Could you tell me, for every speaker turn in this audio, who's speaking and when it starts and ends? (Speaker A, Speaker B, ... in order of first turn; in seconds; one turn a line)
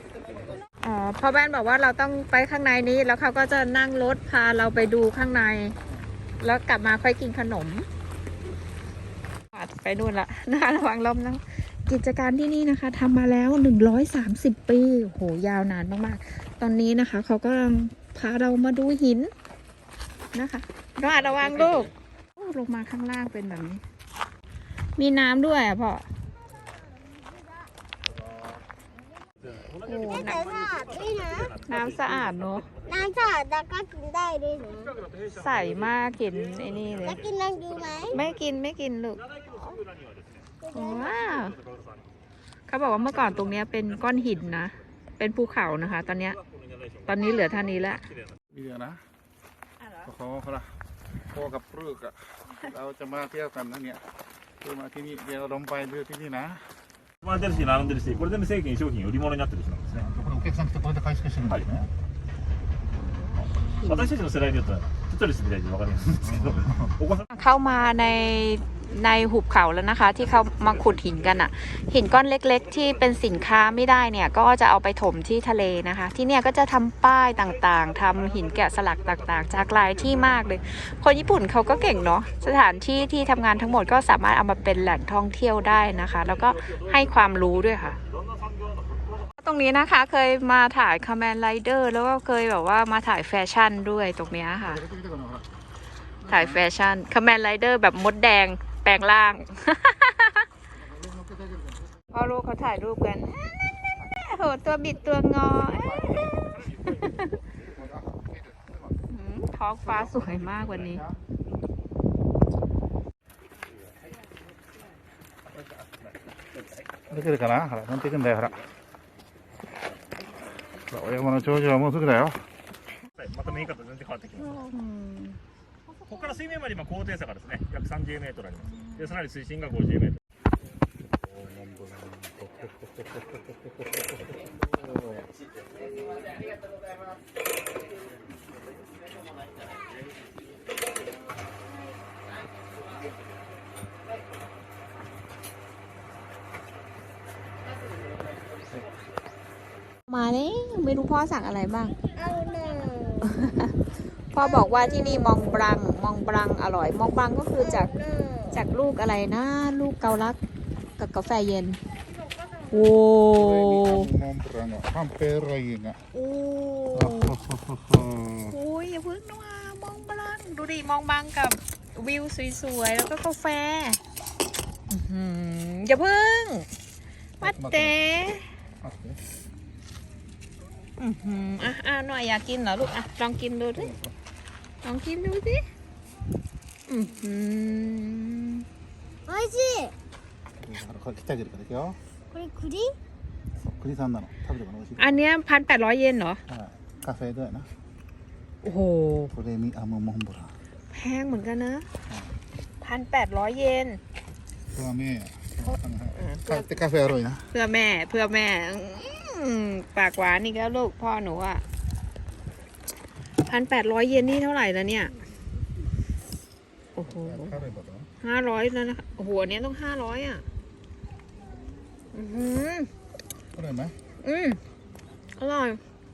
Speaker A: 0.8-5.8
Speaker A: 6.4-7.9
Speaker A: 9.5-19.3
Speaker A: 20.3-23.8
Speaker A: 25.0-26.1
Speaker A: 29.8-30.5
Speaker B: 29.9-31.6
Speaker A: 31.6-32.7
Speaker B: 32.9-35.0
Speaker A: 35.3-37.2
Speaker B: 37.0-38.2
Speaker A: 38.1-39.3
Speaker B: 40.6-41.4
Speaker A: 40.7-41.6
Speaker A: 42.7-46.4
Speaker A: 47.1-48.1
Speaker C: 48.5-49.0
Speaker C: 50.0-50.8
Speaker C: 51.3-54.0
Speaker C: 54.6-56.8
Speaker D: 57.3-60.0
Speaker C: 57.4-58.1
Speaker C: 59.9-61.9
Speaker A: 63.6-64.2
Speaker D: 63.8-67.3
Speaker C: 66.2-67.0
Speaker A: 67.3-88.0
Speaker A: 89.4-94.8
Speaker C: 94.7-95.5
Speaker C: 96.2-96.6
Speaker A: 96.3-100.5
Speaker C: 100.8-101.9
Speaker A: 102.1-107.3
Speaker C: 105.7-106.3
Speaker C: 107.6-108.8
Speaker A: 109.1-111.0
Speaker C: 110.0-111.2
Speaker C: 117.1-118.6
Speaker C: 120.9-122.4
Speaker D: 123.2-124.6
Speaker A: 124.5-125.4
Speaker D: 126.1-130.2
Speaker C: 131.2-132.8
Speaker C: 134.8-135.3
Speaker A: 150.1-152.0
Speaker B: 152.2-153.3
Speaker A: 153.2-153.8
Speaker A: 154.3-157.9
Speaker B: 154.4-155.8
Speaker B: 157.6-158.6
Speaker A: 158.5-160.4
Speaker A: 161.0-161.8
Speaker A: 162.7-164.1
Speaker C: 163.3-166.1
Speaker A: 166.1-167.4
Speaker C: 166.9-168.5
Speaker A: 168.4-174.0
Speaker A: 174.9-176.7
Speaker C: 177.4-178.0
Speaker A: 177.4-178.5
Speaker C: 178.8-179.2
Speaker A: 181.0-183.9
Speaker C: 183.8-184.1
Speaker A: 184.8-185.7
Speaker A: 186.9-188.7
Speaker B: 189.3-189.9
Speaker C: 190.6-192.0
Speaker B: 192.3-192.9
Speaker C: 193.7-195.2
Speaker A: 195.0-196.4
Speaker C: 196.5-197.7
Speaker A: 198.6-199.3
Speaker C: 199.3-200.5
Speaker A: 200.9-201.9
Speaker C: 202.1-202.4
Speaker A: 202.8-204.0
Speaker C: 204.7-207.5
Speaker A: 206.2-206.7
Speaker A: 207.5-211.6
Speaker A: 213.4-215.1
Speaker A: 217.0-217.6
Speaker C: 217.2-218.1
Speaker A: 218.2-220.4
Speaker A: 222.1-222.9
Speaker C: 223.5-224.0
Speaker A: 224.2-224.6
Speaker A: 225.4-225.8